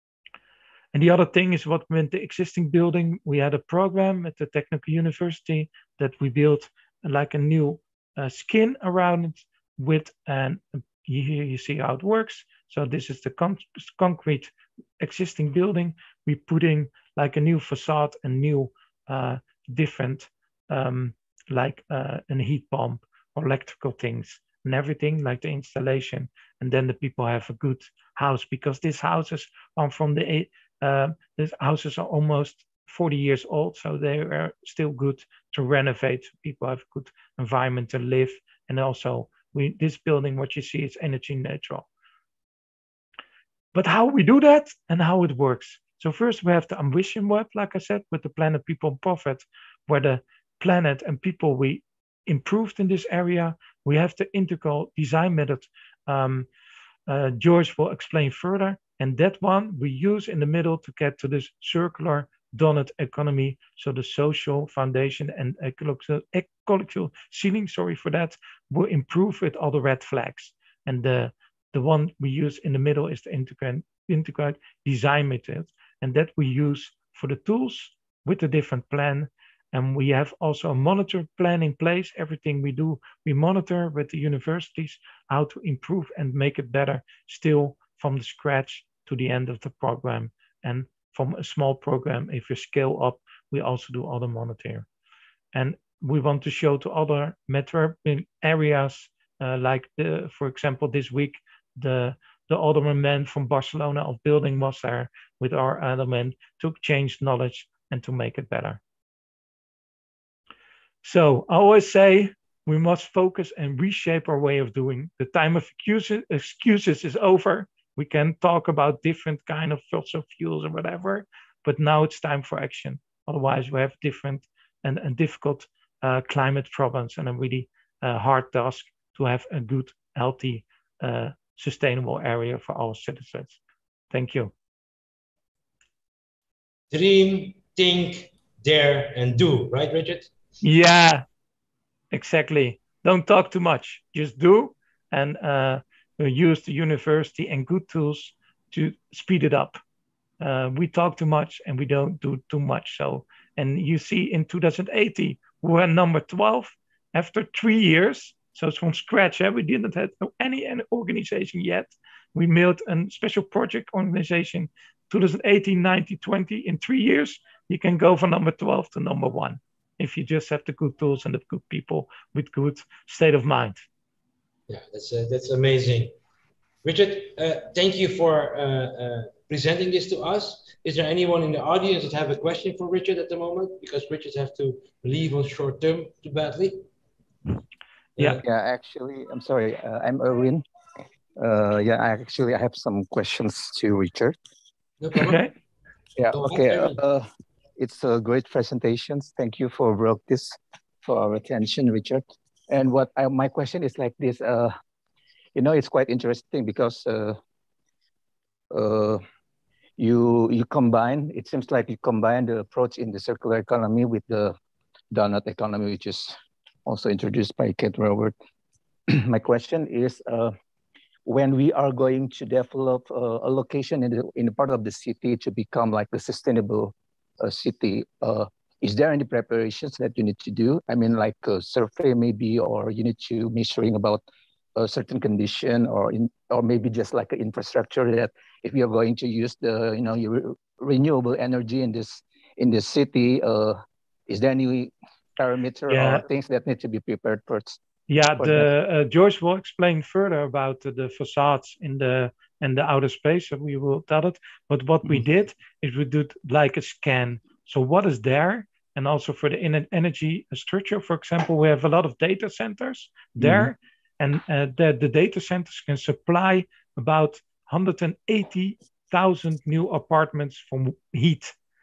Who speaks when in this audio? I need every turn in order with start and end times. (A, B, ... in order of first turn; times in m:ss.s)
0:00.9-0:41.8 A
0:43.7-0:56.5 A
0:57.1-1:34.8 A
1:35.5-1:48.8 A
1:51.0-2:13.6 A
2:14.1-2:14.5 A
2:16.9-2:20.3 B
2:20.6-2:21.2 A
2:22.1-2:29.8 A
2:30.4-2:53.8 A
2:54.7-2:56.1 B
2:56.8-3:06.8 B
3:08.2-3:08.4 B
3:08.4-3:10.6 C
3:11.4-3:14.4 C
3:15.0-3:15.5 B
3:15.2-3:15.5 A
3:16.2-3:24.7 C
3:16.3-3:17.0 B
3:25.5-3:27.4 C
3:28.7-3:29.2 C
3:30.0-3:34.5 C
3:35.1-3:38.3 C
3:39.1-3:40.5 C
3:41.2-3:54.2 C
3:54.8-4:07.8 C
4:05.9-4:06.2 A
4:08.1-4:31.5 A
4:08.4-4:08.7 C
4:23.4-4:23.7 C